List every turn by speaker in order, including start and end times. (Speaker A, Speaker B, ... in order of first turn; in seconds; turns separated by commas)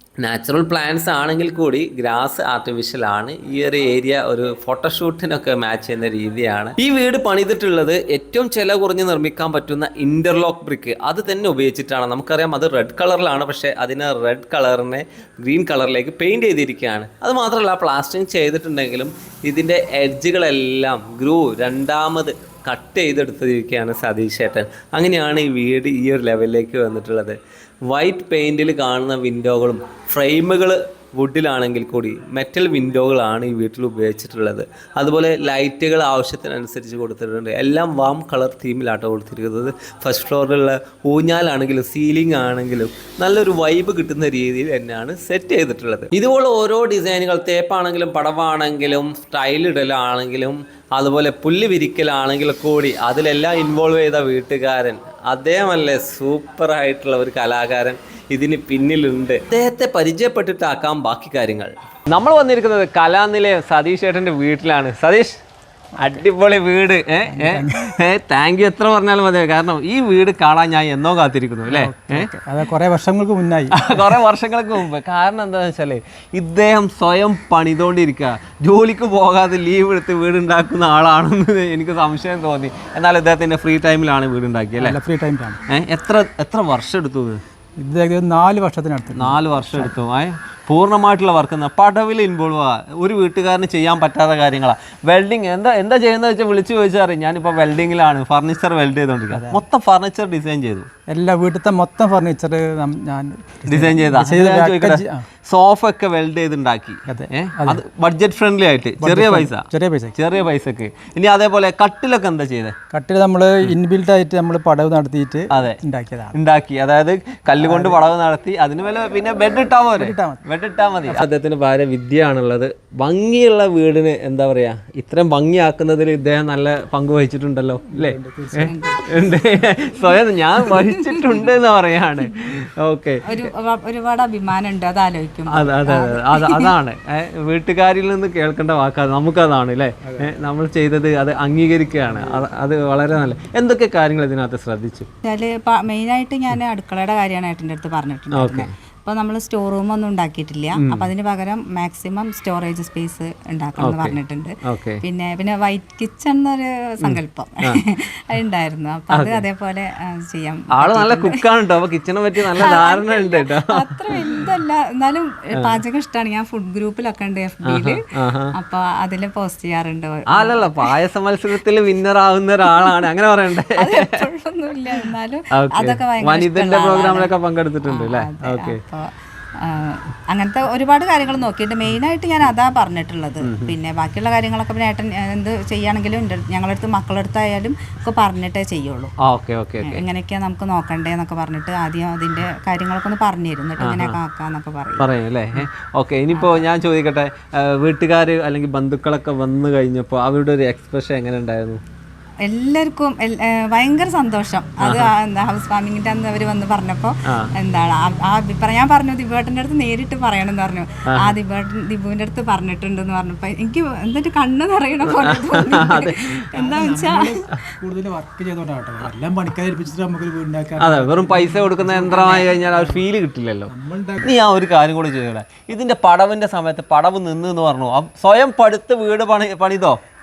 Speaker A: 0.2-65.4, Speaker A: 66.0-72.3, Speaker B: 67.3-67.9, Speaker B: 71.7-74.2, Speaker A: 73.7-85.0, Speaker B: 84.8-85.6, Speaker A: 85.7-87.4, Speaker B: 87.8-89.9, Speaker A: 89.1-100.9, Speaker B: 99.3-99.6, Speaker B: 101.1-105.2, Speaker A: 103.7-112.8, Speaker B: 107.1-107.8, Speaker B: 109.0-110.2, Speaker B: 112.9-116.3, Speaker A: 115.5-115.8, Speaker A: 116.3-133.5, Speaker B: 117.6-118.0, Speaker B: 120.0-120.4, Speaker B: 127.9-129.8, Speaker C: 128.6-129.2, Speaker C: 130.6-131.4, Speaker C: 133.2-136.7, Speaker A: 135.5-145.1, Speaker B: 140.0-140.3, Speaker B: 142.1-142.5, Speaker C: 145.2-161.4, Speaker A: 148.3-148.7, Speaker A: 150.8-151.1, Speaker A: 153.8-155.0, Speaker A: 157.0-157.8, Speaker A: 159.1-159.4, Speaker A: 160.7-164.5, Speaker C: 162.5-170.9, Speaker A: 167.7-168.5, Speaker A: 170.3-174.2, Speaker C: 172.7-173.0, Speaker C: 173.7-177.3, Speaker A: 174.9-178.8, Speaker C: 177.8-189.1, Speaker A: 183.4-183.7, Speaker A: 189.2-190.0, Speaker C: 189.8-195.1, Speaker A: 193.8-194.2, Speaker A: 195.0-201.8, Speaker C: 196.3-196.6, Speaker C: 202.4-217.6, Speaker A: 204.8-205.1, Speaker A: 207.2-207.5, Speaker A: 211.1-211.3, Speaker A: 215.1-216.4, Speaker B: 216.5-223.0, Speaker A: 220.8-223.7, Speaker B: 223.7-224.3, Speaker A: 224.2-230.0